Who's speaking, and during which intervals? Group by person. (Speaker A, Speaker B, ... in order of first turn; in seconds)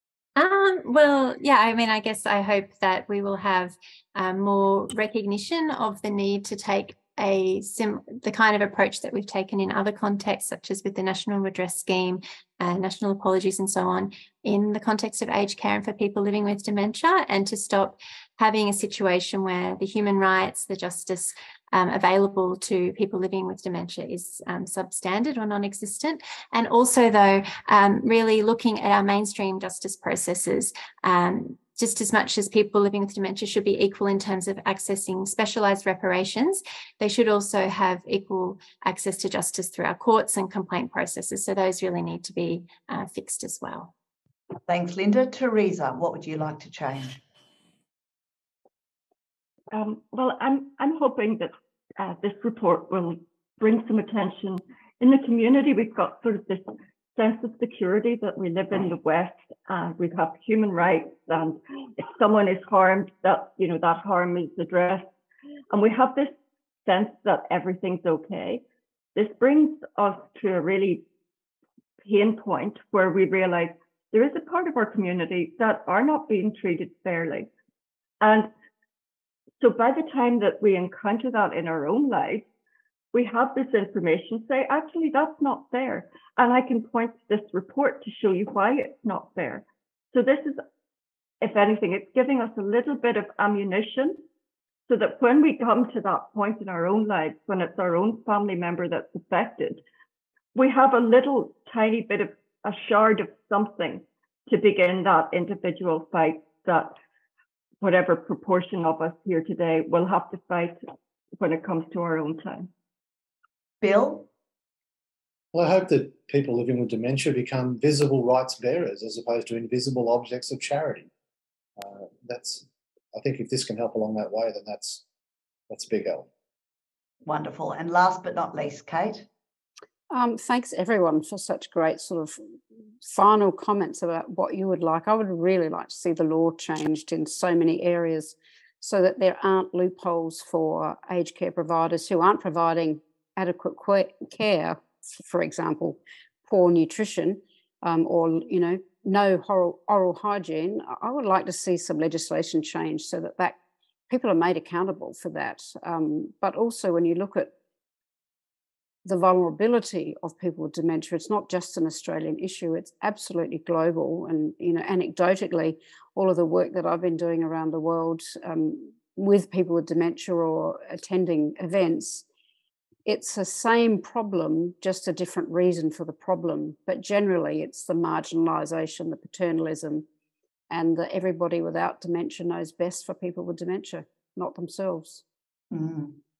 Speaker A: 0.3-43.9
Speaker B: 44.7-47.2, 113.8-114.3, 127.2-129.2, 185.7-186.2
Speaker C: 49.7-56.6, 57.1-65.0, 65.7-66.3, 66.8-68.6, 69.1-71.0, 72.0-77.5, 78.2-78.5, 79.6-82.5, 83.1-90.6, 91.4-94.2, 94.9-99.8, 100.5-106.9, 107.8-110.8, 111.4-112.7
Speaker D: 115.5-121.1, 121.8-125.0, 125.7-126.3
Speaker E: 130.1-132.4, 133.0-153.6, 154.1-157.5, 159.0-172.2, 173.1-180.1, 180.7-185.2